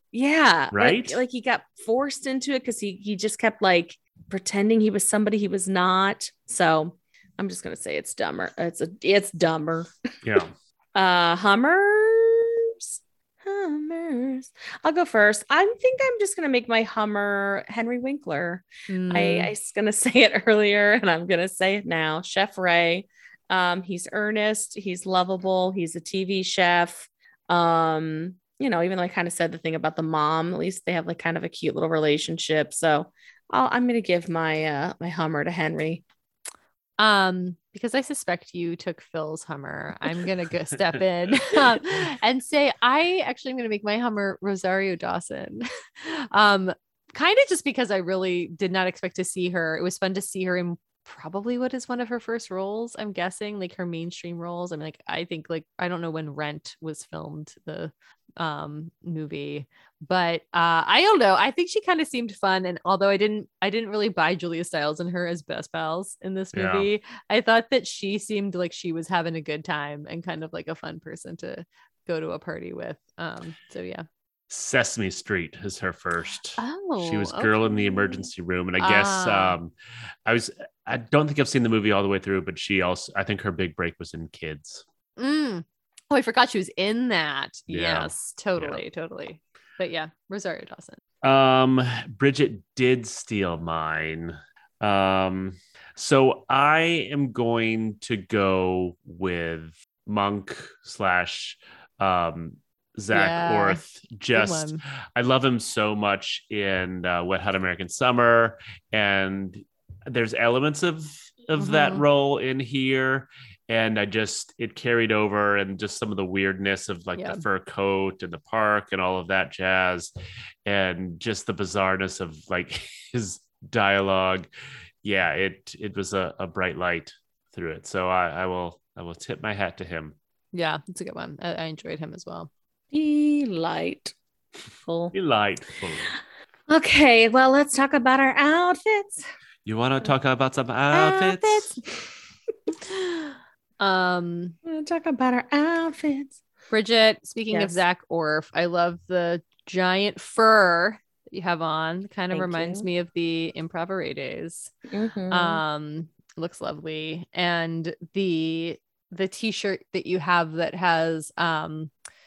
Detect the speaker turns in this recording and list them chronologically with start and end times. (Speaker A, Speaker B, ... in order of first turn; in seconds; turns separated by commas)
Speaker A: 0.1-9.9, Speaker B: 0.7-1.2, Speaker B: 10.2-10.5, Speaker A: 10.9-12.8, Speaker A: 13.4-36.0, Speaker C: 18.9-19.5, Speaker C: 37.0-74.0, Speaker B: 66.5-66.9, Speaker B: 74.5-79.7, Speaker C: 76.6-78.3, Speaker C: 78.8-79.6, Speaker B: 80.2-84.8, Speaker C: 85.2-91.0, Speaker B: 87.7-88.8, Speaker B: 91.2-120.1, Speaker C: 103.1-103.8, Speaker C: 104.3-104.8, Speaker C: 111.6-112.0, Speaker C: 117.2-117.4, Speaker B: 120.7-124.5, Speaker B: 125.0-130.2, Speaker C: 130.5-132.5, Speaker A: 132.9-134.1, Speaker A: 134.8-135.1, Speaker B: 135.1-136.2, Speaker A: 136.7-139.2, Speaker B: 139.7-141.8, Speaker A: 140.9-141.9, Speaker C: 142.9-144.6, Speaker A: 144.7-146.4, Speaker C: 146.7-154.7, Speaker A: 147.5-147.8, Speaker A: 152.3-152.9, Speaker A: 154.9-155.6, Speaker C: 155.3-161.9